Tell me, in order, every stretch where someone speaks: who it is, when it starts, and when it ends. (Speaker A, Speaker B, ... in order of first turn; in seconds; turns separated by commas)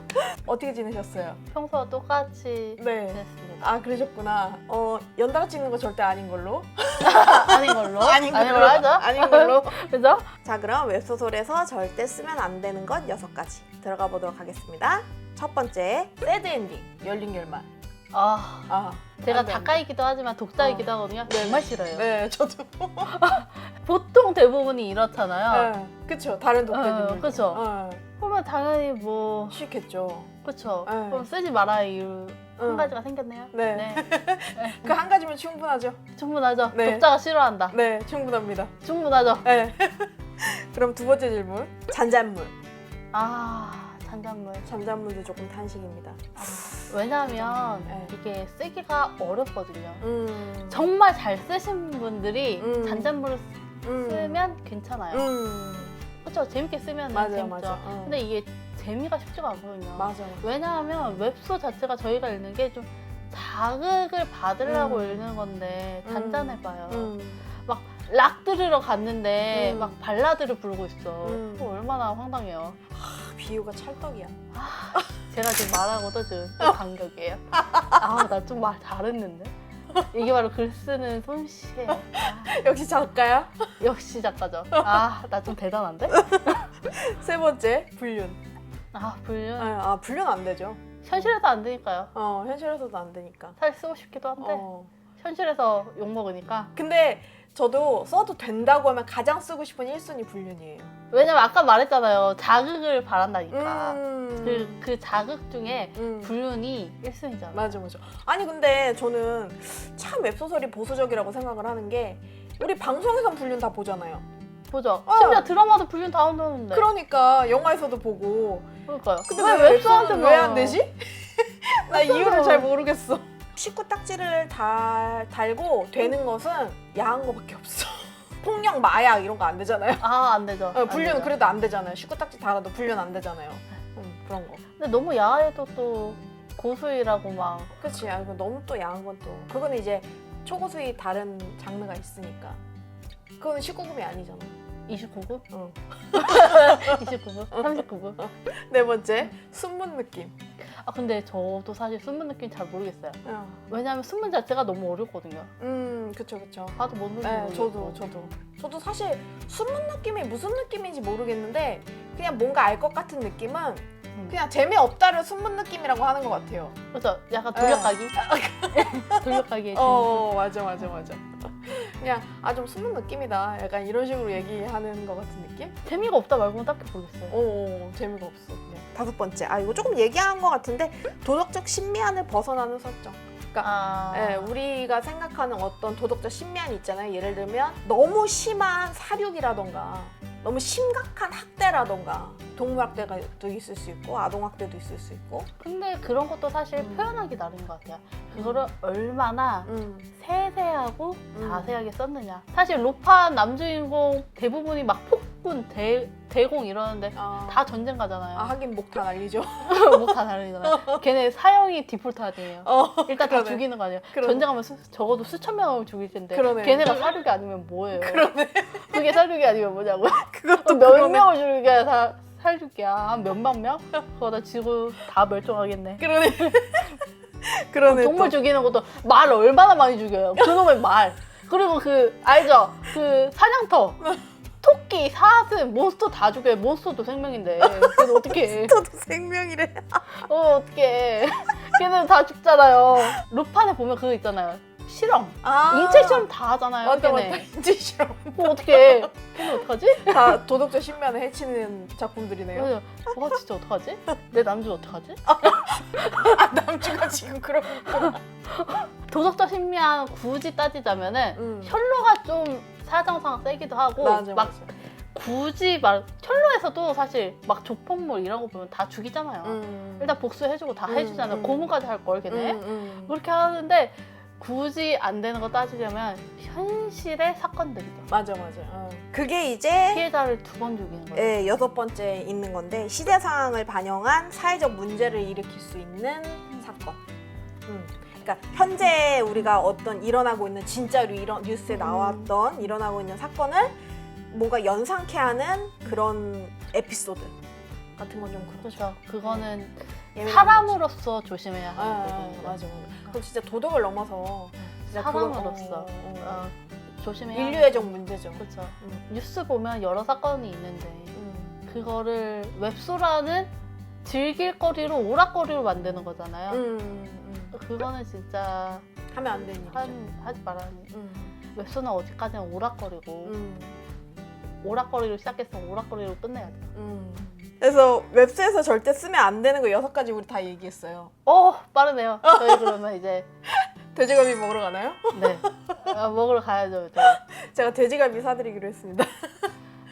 Speaker A: 0.4-1.4, Speaker B: 1.5-3.7, Speaker A: 2.8-9.7, Speaker B: 7.0-10.3, Speaker A: 10.3-17.7, Speaker B: 18.1-22.1, Speaker A: 18.7-19.8, Speaker A: 20.6-23.2, Speaker B: 23.1-25.7, Speaker A: 25.5-28.0, Speaker B: 26.7-27.6, Speaker B: 28.2-29.6, Speaker A: 29.5-30.3, Speaker B: 30.4-34.9, Speaker A: 30.8-31.3, Speaker A: 32.6-32.9, Speaker A: 33.5-36.0, Speaker B: 36.1-37.8, Speaker A: 36.7-37.1, Speaker A: 37.7-38.7, Speaker B: 38.8-39.5, Speaker A: 39.4-42.5, Speaker B: 43.1-44.7, Speaker A: 44.6-48.1, Speaker B: 46.4-50.0, Speaker A: 50.0-50.8, Speaker B: 50.7-55.3, Speaker A: 52.6-53.2, Speaker A: 53.8-54.4, Speaker A: 55.1-56.0, Speaker B: 56.2-72.8, Speaker A: 57.1-58.2, Speaker A: 60.0-60.5, Speaker A: 64.6-65.2, Speaker A: 66.0-67.4, Speaker A: 69.5-69.9, Speaker A: 71.2-71.8, Speaker A: 72.9-74.3, Speaker B: 74.5-82.6, Speaker A: 81.9-83.7, Speaker B: 83.8-86.7, Speaker A: 84.7-85.0, Speaker A: 86.1-88.4, Speaker B: 88.9-89.8, Speaker A: 89.6-91.3, Speaker B: 91.0-92.1, Speaker A: 92.1-93.6, Speaker B: 93.6-94.6, Speaker A: 94.4-94.9, Speaker B: 95.2-96.7, Speaker A: 96.7-100.9, Speaker B: 101.1-107.6, Speaker A: 103.5-104.8, Speaker A: 106.0-106.3, Speaker A: 107.5-114.2, Speaker B: 114.7-116.9, Speaker A: 115.1-115.5, Speaker A: 116.7-118.7, Speaker B: 118.9-120.8, Speaker A: 119.2-130.0, Speaker B: 121.9-122.7, Speaker B: 130.0-131.3, Speaker A: 130.7-134.6, Speaker B: 134.8-137.7, Speaker A: 137.8-142.6, Speaker A: 143.4-144.5, Speaker B: 144.9-145.4, Speaker A: 145.5-147.0, Speaker B: 146.1-148.3, Speaker A: 147.5-150.3, Speaker B: 150.7-155.5, Speaker A: 153.2-153.6, Speaker A: 155.6-166.7, Speaker B: 156.8-158.1, Speaker B: 166.9-170.5, Speaker A: 167.5-175.8, Speaker B: 175.8-177.4, Speaker A: 177.3-195.5, Speaker B: 183.6-184.5, Speaker B: 195.6-208.5, Speaker A: 196.7-197.1, Speaker A: 198.3-198.7, Speaker A: 199.6-200.1, Speaker A: 201.3-201.8, Speaker A: 207.1-207.6, Speaker A: 208.3-211.0, Speaker B: 209.6-226.6, Speaker A: 212.6-213.6, Speaker A: 214.1-214.5, Speaker A: 216.3-217.1, Speaker A: 217.9-219.2, Speaker A: 220.3-221.3, Speaker A: 226.0-228.4, Speaker B: 227.8-234.0, Speaker B: 234.6-238.8, Speaker A: 237.6-240.1, Speaker B: 240.1-247.5, Speaker A: 245.4-246.3, Speaker A: 246.8-252.7, Speaker B: 248.3-250.4, Speaker B: 252.5-256.3, Speaker A: 255.3-258.2, Speaker B: 257.8-278.1, Speaker A: 261.3-261.8, Speaker A: 264.0-264.7, Speaker A: 269.4-270.2, Speaker A: 270.8-271.7, Speaker A: 272.3-273.1, Speaker A: 278.1-280.0, Speaker B: 279.9-281.4, Speaker A: 281.1-287.0, Speaker A: 287.6-293.7, Speaker B: 291.7-292.3, Speaker A: 294.3-297.3, Speaker A: 298.0-299.5, Speaker B: 298.6-302.6, Speaker A: 300.1-300.7, Speaker A: 301.8-306.5, Speaker B: 304.9-313.5, Speaker A: 307.3-309.0, Speaker A: 311.1-311.6, Speaker B: 314.0-316.6, Speaker A: 316.5-317.6, Speaker B: 317.5-318.9, Speaker A: 319.1-319.9, Speaker B: 319.4-320.9, Speaker A: 320.9-321.3, Speaker B: 321.5-323.4, Speaker A: 323.2-323.8, Speaker B: 324.6-326.7, Speaker A: 326.7-331.1, Speaker B: 331.2-333.3, Speaker A: 332.2-332.8, Speaker A: 333.5-335.8, Speaker B: 335.1-337.2, Speaker A: 337.0-339.5